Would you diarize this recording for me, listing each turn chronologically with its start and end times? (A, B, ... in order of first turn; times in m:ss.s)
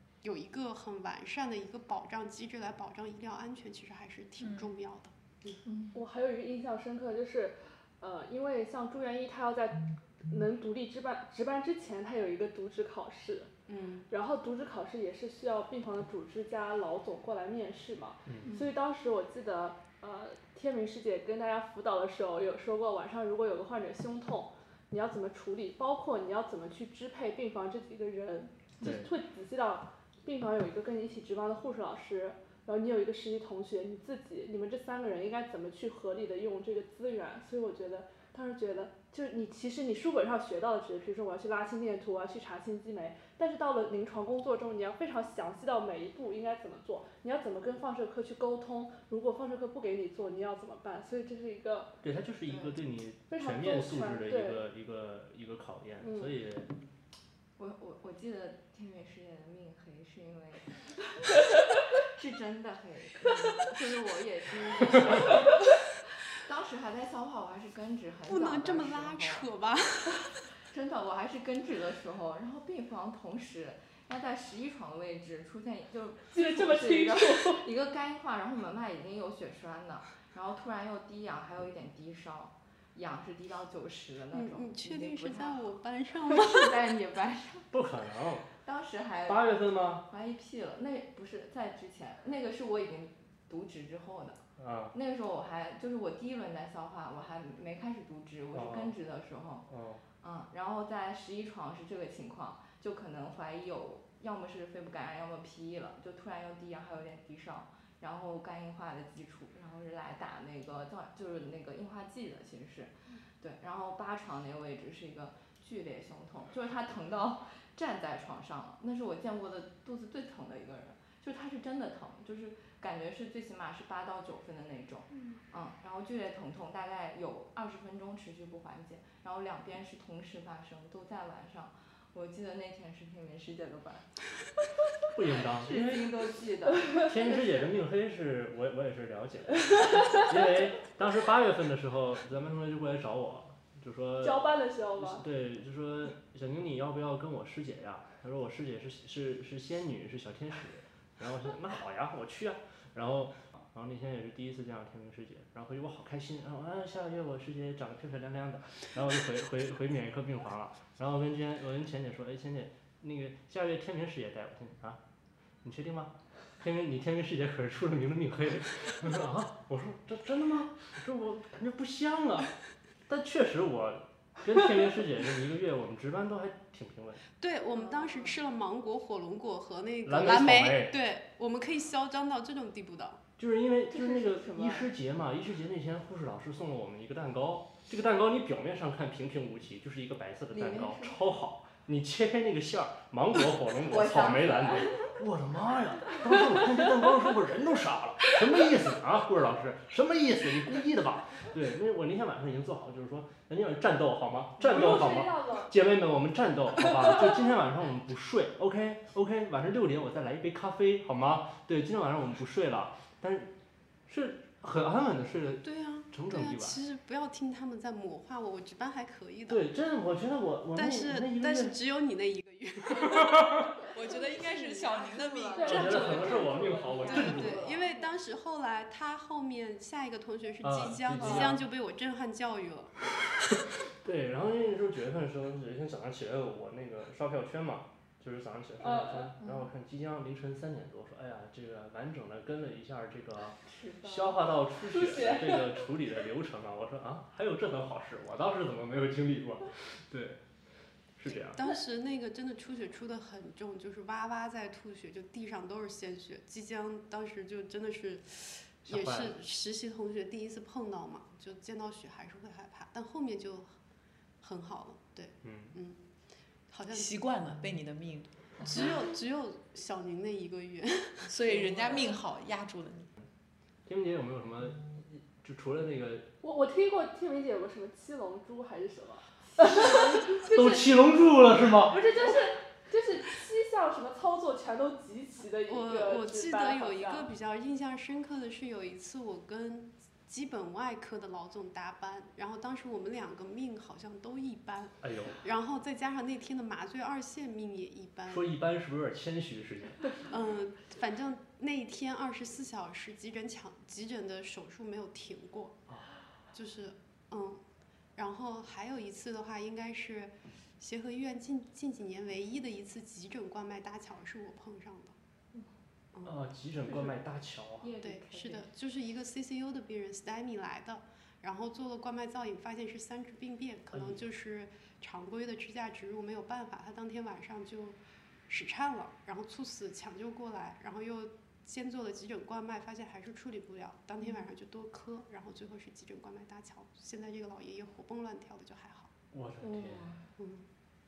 0:00.2-0:05.6 A
0:04.4-0:04.7 B
0:05.6-0:06.0 C
0:05.9-0:13.5 D
0:13.7-0:14.1 A
0:14.1-0:52.0 D
0:18.4-0:18.7 C
0:28.8-0:29.1 E
0:52.0-0:56.7 E
0:52.5-0:52.8 C
0:53.3-0:54.6 D
0:56.0-0:56.4 D
0:57.6-1:09.5 C
1:08.3-1:10.4 A
1:10.7-1:25.7 C
1:16.3-1:17.6 D
1:24.3-1:26.8 A
1:26.2-1:27.7 C
1:27.7-1:28.5 E
1:28.6-1:39.7 C
1:29.3-1:30.0 E
1:34.6-1:34.9 E
1:38.5-1:39.0 E
1:39.7-1:40.0 E
1:40.2-2:14.3 C
2:15.1-2:16.1 E
2:15.6-2:17.7 C
2:17.0-2:45.0 E
2:24.2-2:25.2 D
2:45.6-2:52.6 E
2:53.1-2:57.2 E
2:57.4-3:03.2 A
2:57.7-2:58.4 C
3:00.0-3:01.0 E
3:03.4-3:33.5 E
3:03.9-3:04.9 C
3:10.5-3:11.2 C
3:13.8-3:15.0 C
3:24.6-3:25.7 D
3:34.1-3:36.8 E
3:35.6-3:39.6 A
3:39.5-3:41.8 E
3:40.7-3:43.7 A
3:43.1-3:43.6 E
3:43.9-3:48.1 C
3:43.9-3:45.9 B
3:45.5-3:47.8 D
3:45.6-3:47.6 E
3:47.1-3:52.9 A
3:50.6-3:51.6 E
3:51.2-3:51.5 D
3:54.0-4:10.4 E
3:58.8-3:59.3 D
4:03.6-4:04.4 C
4:04.8-4:05.8 D
4:11.2-4:11.6 E
4:11.3-4:23.8 A
4:18.9-4:19.4 E
4:24.4-4:26.0 A
4:25.4-4:25.8 E
4:26.7-4:27.2 A
4:26.9-4:28.9 B
4:28.6-4:32.1 A
4:31.2-4:33.1 B
4:33.8-4:36.3 E
4:36.4-4:40.6 D
4:39.6-4:40.2 C
4:39.8-4:42.0 E
4:41.8-4:47.3 D
4:45.7-4:58.5 A
4:55.0-4:55.4 E
4:58.3-5:00.2 E
5:00.3-5:05.8 A
5:06.5-5:07.6 A
5:08.2-5:15.1 A
5:16.2-5:17.9 E
5:16.9-5:17.1 C
5:17.8-5:18.7 C
5:18.0-5:39.1 A
5:23.9-5:24.2 E
5:39.3-5:40.2 E
5:39.6-5:40.2 C
5:40.4-5:40.7 A